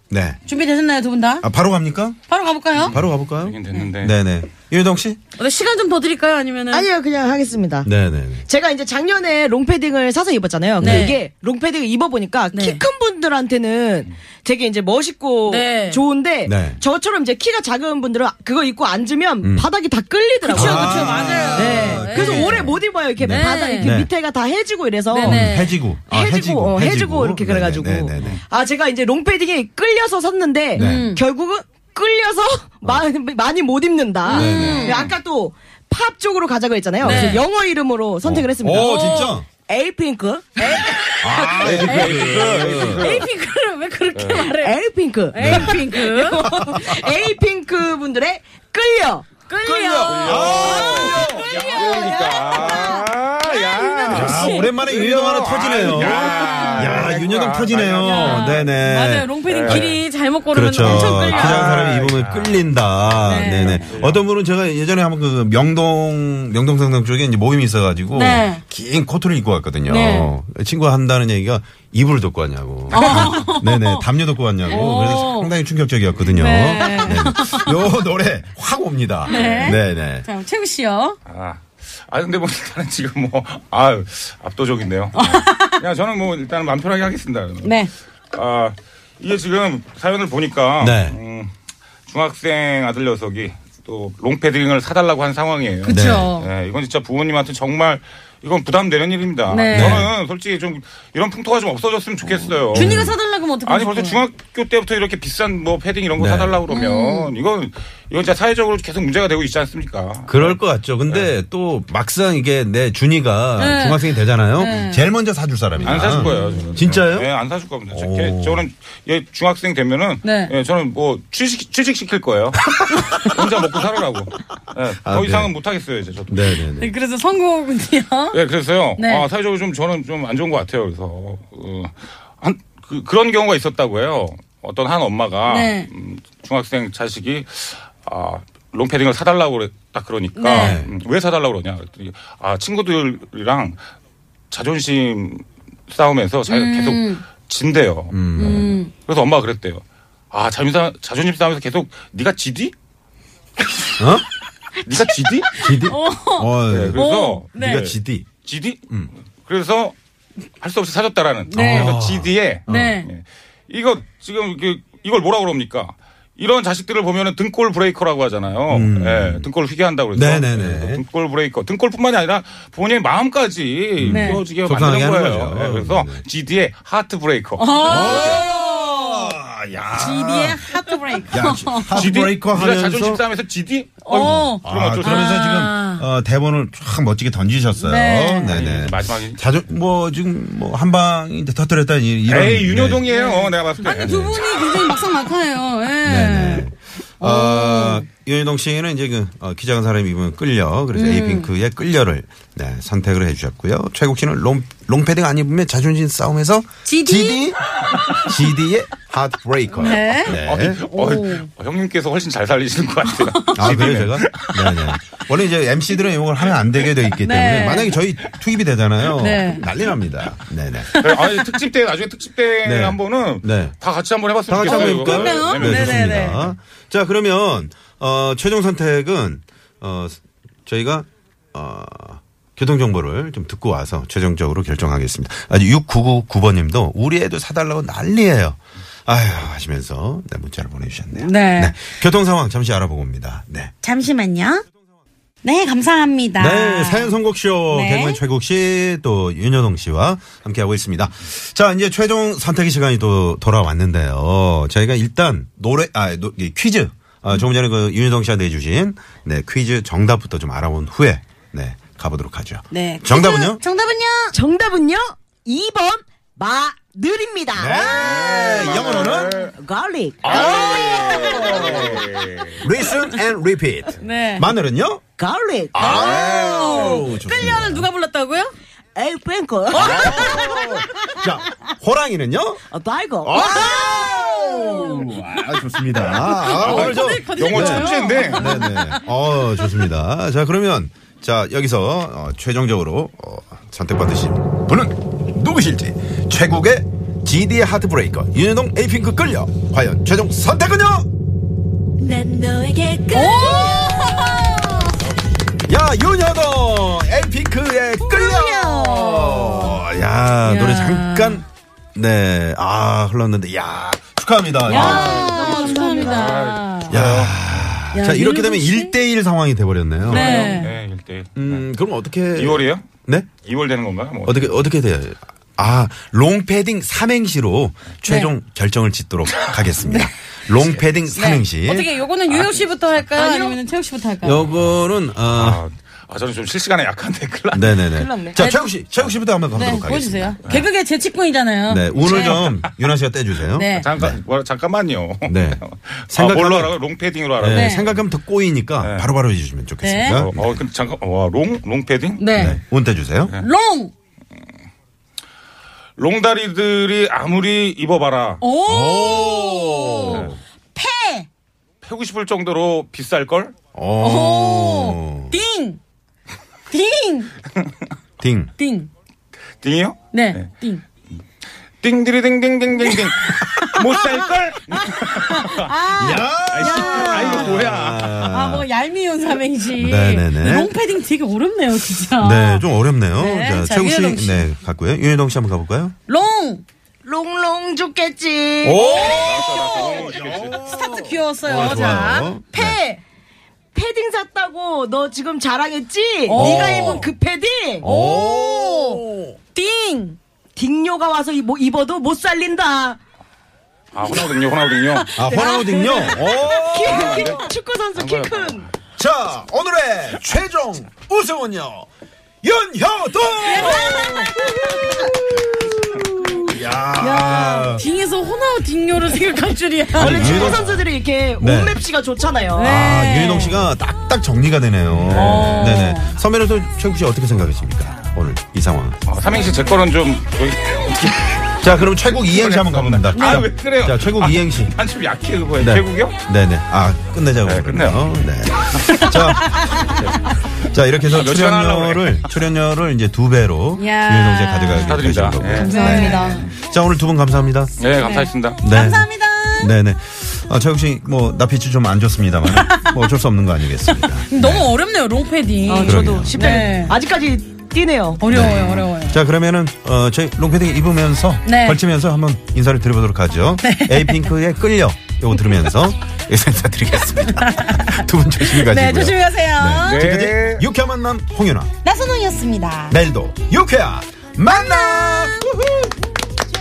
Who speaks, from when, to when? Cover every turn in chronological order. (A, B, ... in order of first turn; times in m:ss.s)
0:00.1-0:00.4 A
0:00.4-0:01.4 B
0:01.4-0:02.2 A
0:02.3-0:03.0 B
0:02.8-0:04.2 C
0:02.9-0:05.2 A
0:05.4-0:06.9 B
0:06.7-0:07.9 D
0:07.8-0:08.5 A
0:08.5-0:25.4 D
0:10.8-0:11.2 B
0:10.8-0:11.1 A
0:12.5-0:12.8 B
0:15.4-0:16.0 B
0:16.4-0:16.8 A
0:19.4-0:19.7 A
0:20.4-0:22.7 B
0:20.5-0:24.1 A
0:23.2-0:24.0 B
0:25.1-0:25.8 B
0:25.2-0:28.4 A
0:26.1-0:40.9 D
0:30.8-0:31.1 A
0:30.8-0:31.2 B
0:34.2-0:35.1 B
0:34.3-0:35.1 A
0:37.0-0:37.4 A
0:37.0-0:37.4 B
0:38.2-0:39.4 A
0:38.8-0:39.4 B
0:40.6-0:44.8 B
0:41.2-0:43.1 A
0:41.6-0:43.3 C
0:44.1-0:44.4 C
0:44.3-0:50.9 D
0:45.3-0:47.0 B
0:45.4-0:45.8 A
0:49.5-0:54.7 B
0:49.8-0:52.0 A
0:50.0-0:58.7 C
0:54.1-1:00.0 A
0:55.8-0:57.2 B
0:58.0-1:01.9 B
0:59.4-1:00.0 C
1:00.5-1:20.3 A
1:00.9-1:03.2 C
1:03.2-1:03.9 B
1:03.8-1:04.2 C
1:08.1-1:08.6 B
1:09.9-1:10.3 B
1:12.9-1:13.3 C
1:12.9-1:14.1 B
1:14.6-1:15.5 B
1:16.3-1:17.8 B
1:19.2-1:21.2 B
1:19.3-1:19.7 C
1:21.2-1:27.8 C
1:25.1-1:25.8 B
1:27.6-1:27.9 B
1:28.3-1:31.5 C
1:30.8-1:31.2 A
1:32.1-1:43.0 C
1:35.8-1:36.5 B
1:35.9-1:36.3 A
1:39.5-1:40.1 B
1:39.7-1:40.1 A
1:42.4-1:44.2 B
1:42.7-1:43.2 A
1:43.6-1:51.3 C
1:46.1-1:46.6 A
1:46.7-1:47.3 B
1:50.3-1:57.3 A
1:53.6-1:55.1 B
1:55.8-2:06.6 C
1:56.3-1:56.6 B
1:57.9-1:58.6 A
2:00.2-2:00.5 B
2:02.8-2:03.2 A
2:05.0-2:05.5 A
2:06.3-2:06.9 A
2:06.8-2:08.4 B
2:08.3-2:23.8 C
2:09.0-2:09.3 B
2:15.5-2:15.9 B
2:20.3-2:20.8 B
2:20.5-2:20.9 A
2:24.5-2:28.2 C
2:26.5-2:27.2 B
2:28.1-2:28.8 A
2:28.4-2:28.9 B
2:29.0-2:32.8 C
2:34.0-2:34.2 A
2:34.8-2:35.5 C
2:35.5-2:37.0 A
2:35.5-2:37.9 B
2:36.7-2:39.9 C
2:37.6-2:38.3 A
2:40.6-2:58.4 C
2:41.5-2:41.9 B
2:41.5-2:43.0 A
2:42.7-2:43.1 B
2:48.7-2:49.5 A
2:50.1-2:51.0 A
2:54.0-2:56.2 A
2:54.1-2:54.4 B
2:57.6-2:59.3 B
2:57.8-3:03.2 A
2:59.9-3:02.1 B
3:01.9-3:05.4 C
3:04.0-3:06.1 B
3:04.1-3:13.1 A
3:07.8-3:08.6 B
3:08.5-3:09.4 C
3:12.2-3:14.6 C
3:13.1-3:18.0 B
3:16.0-3:27.6 A
3:20.9-3:21.5 B
3:26.8-3:27.5 B
3:28.1-3:30.8 A
3:29.8-3:31.5 B
3:30.2-3:35.0 C
3:33.1-3:33.8 B
3:33.5-3:40.9 A
3:36.6-3:36.8 C
3:37.2-3:37.9 B
3:39.2-3:39.6 B
3:40.9-3:46.2 C
3:42.6-3:43.8 A
3:44.5-4:03.7 A
3:44.6-3:46.5 B
4:01.1-4:01.8 B
4:03.8-4:04.6 B
4:05.4-4:07.2 B
4:06.4-4:23.6 A
4:07.7-4:08.2 B
4:22.7-4:24.4 B
4:24.3-4:32.1 D
4:27.5-4:29.4 A
4:28.0-4:29.5 C
4:30.2-4:32.6 C
4:30.4-4:32.0 A
4:32.6-4:35.0 A
4:34.0-4:34.5 B
4:35.2-4:35.9 D
4:35.8-4:37.0 C
4:35.8-4:37.9 A
4:35.8-4:38.5 B
4:39.0-4:40.6 D
4:39.7-4:41.2 B
4:39.7-4:42.6 A
4:42.7-4:43.8 D
4:43.2-5:01.1 A
4:43.3-4:48.9 B
4:46.6-4:48.6 C
5:02.0-5:04.5 E
5:03.1-5:05.0 B
5:05.7-5:16.2 A
5:08.0-5:09.8 B
5:10.4-5:11.4 B
5:14.6-5:17.6 C
5:14.7-5:17.0 B
5:15.0-5:16.3 D
5:16.9-5:20.6 A
5:17.9-5:18.9 B
5:20.0-5:21.7 C
5:20.1-5:20.7 B
5:21.4-5:23.3 A
5:22.3-5:22.9 C
5:23.4-5:24.6 C
5:24.2-5:31.9 A
5:28.0-5:28.3 B
5:29.9-5:30.1 B
5:31.1-5:34.5 B
5:32.3-5:32.5 C
5:33.2-5:33.6 D
5:34.2-5:35.6 A
5:35.2-5:37.8 C
5:37.5-5:40.4 A
5:37.9-5:38.4 D
5:38.4-5:38.7 B
5:39.5-5:42.4 B
5:41.7-5:44.2 A
5:41.9-5:42.6 C
5:43.5-5:43.9 B
5:43.7-5:48.1 C
5:45.2-5:46.8 A
5:47.4-5:50.6 A
5:47.5-5:47.9 B
5:48.8-5:49.1 C
5:49.8-5:50.2 B
5:50.1-5:52.5 C
5:52.2-5:52.6 B
5:52.3-5:53.3 A
5:53.4-5:53.9 B
5:56.0-5:58.4 C
5:58.4-6:01.3 B
5:58.6-6:00.4 A
6:00.1-6:00.4 C
6:01.8-6:03.5 C
6:03.7-6:05.4 A
6:04.0-6:05.8 B
6:06.7-6:07.3 B
6:08.2-6:08.5 A
6:08.6-6:08.9 B
6:09.6-6:10.5 C
6:10.1-6:10.8 B
6:11.8-6:15.9 C
6:14.7-6:17.5 B
6:15.9-6:18.7 A
6:16.5-6:18.2 C
6:18.2-6:24.5 B
6:19.7-6:20.7 A
6:22.2-6:25.9 A
6:26.1-6:26.6 B
6:27.0-6:28.9 D
6:28.6-6:32.8 A
6:28.7-6:32.3 B
6:29.0-6:30.6 C
6:32.5-6:33.0 D
6:33.7-6:37.9 D
6:36.2-6:37.1 B
6:36.4-6:37.0 A
6:37.8-6:39.4 A
6:37.8-6:40.2 B
6:40.6-6:43.0 D
6:43.9-6:45.1 C
6:44.9-6:46.3 B
6:45.1-6:47.2 A
6:45.3-6:48.6 D
6:46.7-6:47.4 C
6:47.9-6:48.7 C
6:49.0-6:51.9 A
6:52.4-6:57.9 A
6:53.4-6:55.1 B
6:53.5-6:55.1 D
6:56.9-6:57.7 D
6:57.7-7:00.6 B
6:59.9-7:02.7 D
6:59.9-7:00.9 A
7:01.4-7:01.8 A
7:02.5-7:03.7 B
7:02.6-7:09.0 A
7:04.9-7:05.6 C
7:05.1-7:06.2 B
7:09.0-7:16.2 C
7:11.6-7:14.7 A
7:13.1-7:13.5 B
7:15.6-7:19.9 A
7:17.4-7:18.2 C
7:18.8-7:19.9 B
7:20.6-7:27.7 A
7:21.1-7:22.2 C
7:23.8-7:25.0 B
7:24.9-7:26.5 C
7:25.6-7:26.5 B
7:27.8-7:28.6 C
7:28.0-7:29.7 B
7:28.6-7:34.7 A
7:32.5-7:33.0 B
7:33.9-7:36.9 B
7:35.7-7:38.2 D
7:35.8-7:36.4 A
7:38.2-7:39.2 B
7:38.3-7:51.7 A
7:41.4-7:41.8 B
7:43.6-7:44.3 B
7:47.2-7:50.0 B
7:49.8-7:50.6 C
7:51.8-7:53.0 B
7:52.9-7:56.1 A
7:54.5-7:55.5 B